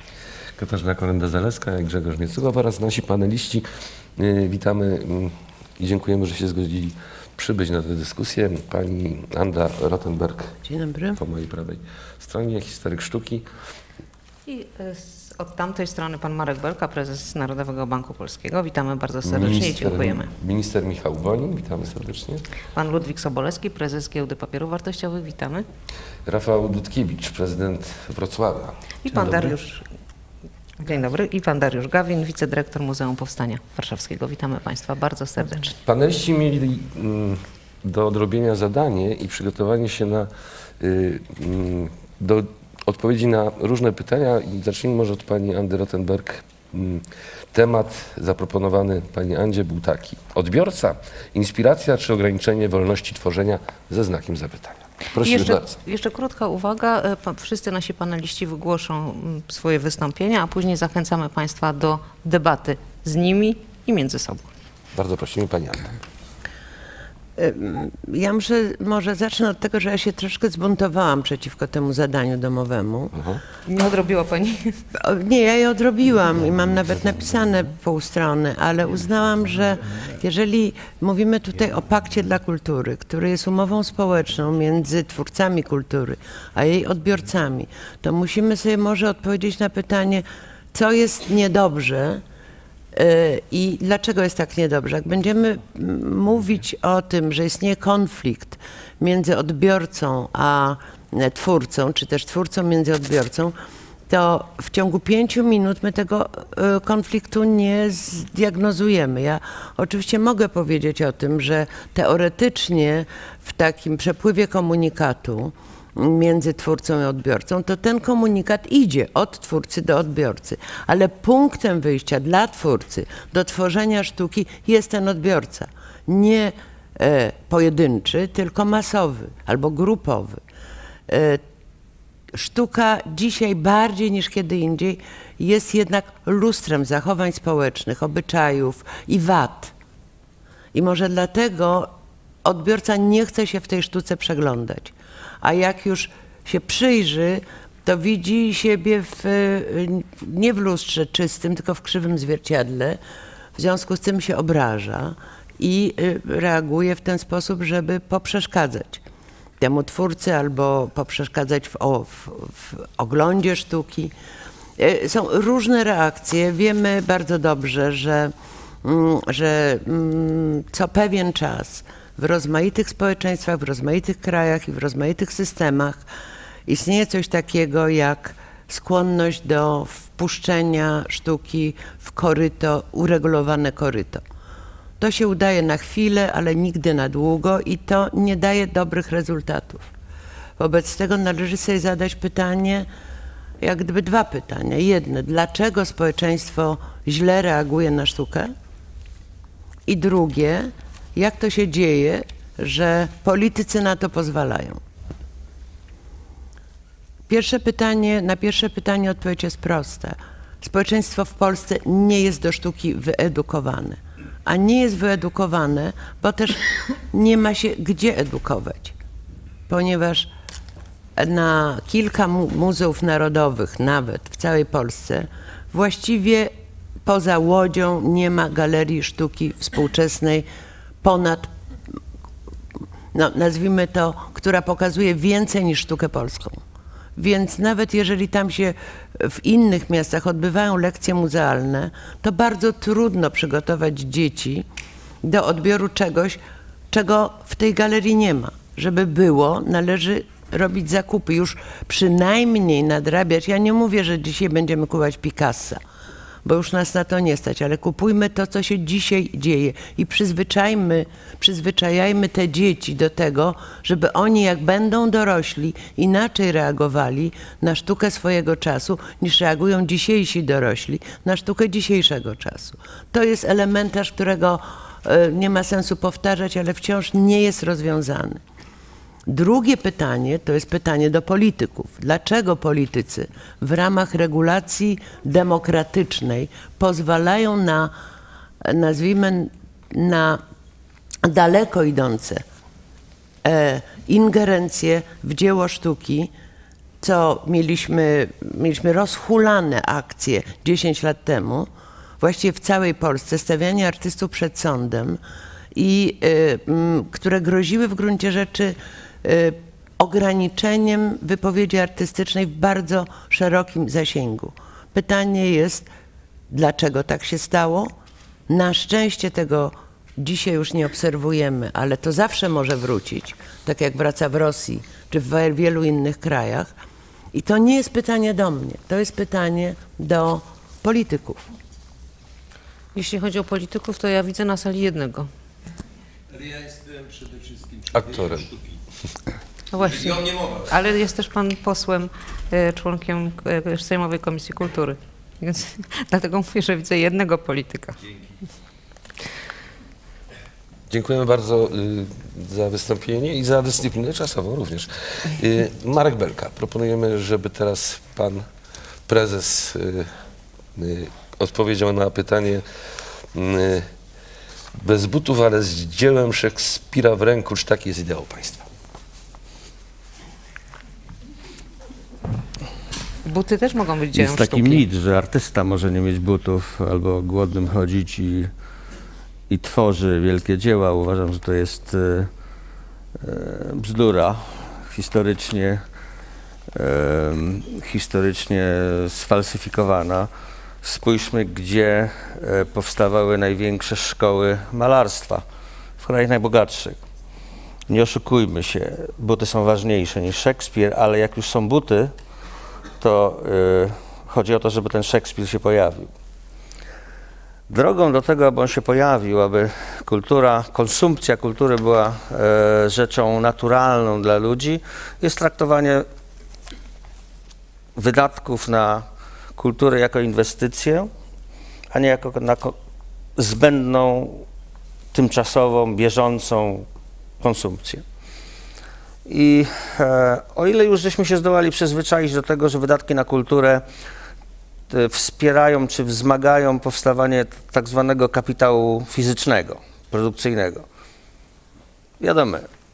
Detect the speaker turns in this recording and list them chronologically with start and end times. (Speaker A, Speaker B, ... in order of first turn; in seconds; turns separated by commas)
Speaker A: 0.6-3.7, Speaker A: 4.2-10.6, Speaker B: 10.6-11.2, Speaker A: 11.2-13.5, Speaker C: 14.5-20.3, Speaker A: 19.2-22.4, Speaker C: 22.7-25.7, Speaker A: 26.2-29.6, Speaker C: 29.0-29.8, Speaker C: 30.8-35.7, Speaker A: 35.8-55.8, Speaker C: 55.2-64.5, Speaker A: 64.9-65.9, Speaker B: 67.4-73.1, Speaker A: 73.1-73.4, Speaker C: 73.7-74.8, Speaker B: 75.0-92.2, Speaker B: 92.9-103.6, Speaker B: 104.1-130.4, Speaker B: 131.1-131.4, Speaker B: 132.3-139.7, Speaker B: 140.7-141.9, Speaker B: 142.4-153.0, Speaker B: 153.6-159.0, Speaker B: 159.6-164.1, Speaker B: 164.8-176.1, Speaker B: 176.7-184.2, Speaker B: 185.0-189.9, Speaker B: 190.6-192.9, Speaker B: 193.6-198.5, Speaker B: 199.9-204.8, Speaker B: 207.3-218.9, Speaker B: 219.7-220.3, Speaker B: 221.2-226.5, Speaker B: 227.0-230.4, Speaker B: 231.0-231.5, Speaker B: 233.1-236.6, Speaker B: 237.2-244.7, Speaker B: 245.2-246.4, Speaker B: 246.9-255.8, Speaker B: 256.4-278.4, Speaker B: 279.3-287.9, Speaker B: 288.6-290.4, Speaker B: 291.2-292.4, Speaker B: 293.4-296.3, Speaker B: 297.0-301.7, Speaker B: 302.2-305.2, Speaker B: 305.8-315.9, Speaker B: 316.5-317.9, Speaker B: 318.5-326.7, Speaker B: 327.3-331.4, Speaker C: 332.9-335.3, Speaker D: 336.3-338.7, Speaker A: 337.9-338.5, Speaker C: 339.7-348.0, Speaker A: 350.9-358.5, Speaker A: 359.1-360.1, Speaker A: 360.8-362.6, Speaker A: 363.3-363.9, Speaker A: 364.8-368.7, Speaker C: 373.2-374.9, Speaker E: 374.1-378.5, Speaker E: 379.5-382.3, Speaker E: 383.2-385.8, Speaker E: 386.7-390.3, Speaker E: 390.8-395.4, Speaker E: 396.0-397.0, Speaker E: 397.9-402.1, Speaker E: 403.0-406.1, Speaker E: 407.7-416.1, Speaker E: 417.9-419.1, Speaker E: 419.6-421.1, Speaker E: 421.9-422.8, Speaker E: 423.4-424.4, Speaker E: 425.1-426.9, Speaker E: 427.4-428.0, Speaker E: 429.2-433.8, Speaker E: 434.9-440.8, Speaker E: 442.2-442.7